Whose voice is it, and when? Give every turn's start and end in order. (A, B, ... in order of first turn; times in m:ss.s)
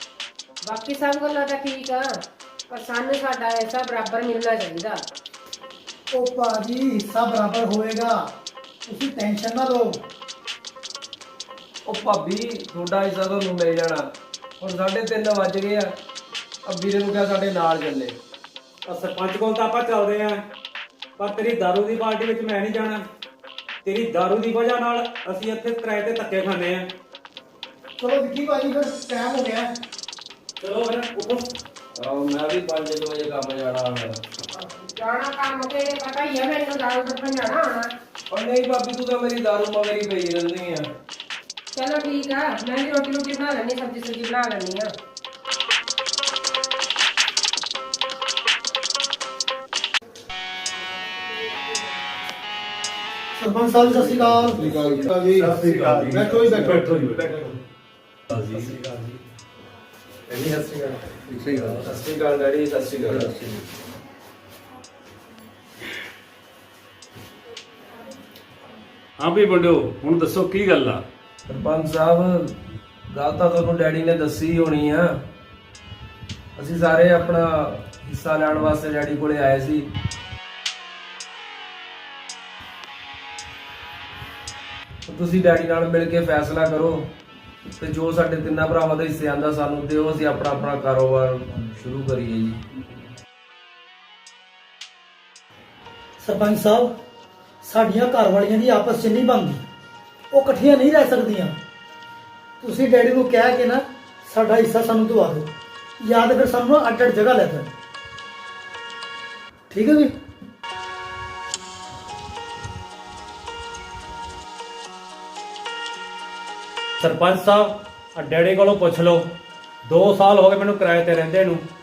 0:00.6-0:02.2 A
0:02.7-0:05.0 A
0:06.1-0:08.3 B
0:08.9-0:10.0 B
0:11.8-0:14.1 C
0:14.6-0:15.9 C
0:16.6-0:18.2 C
0:18.9-0:20.4 D
0:21.2-0:23.0 D
0:23.8-0:26.9 D
0:28.0-0:29.7 B
0:30.6-0:31.5 D
0:31.9-0:34.2 C
0:34.5-0:37.9 A
0:38.3-0:40.9 C
0:41.7-0:44.9 A
0:53.4-0:54.7 B
0:54.9-0:57.5 E
0:55.5-0:57.4 F
0:58.3-0:59.2 F
1:00.3-1:01.0 C
1:01.4-1:01.8 E
1:01.6-1:03.4 C
1:09.2-1:11.0 F
1:11.5-1:12.5 C
1:13.1-1:15.1 C
1:16.6-1:19.9 C
1:25.1-1:27.1 C
1:27.8-1:32.6 C
1:36.2-1:36.9 B
1:37.6-1:39.6 B
1:40.3-1:41.6 B
1:42.6-1:45.5 B
1:46.0-1:47.7 B
1:49.7-1:50.1 B
1:57.0-1:59.2 D
1:59.9-2:01.6 D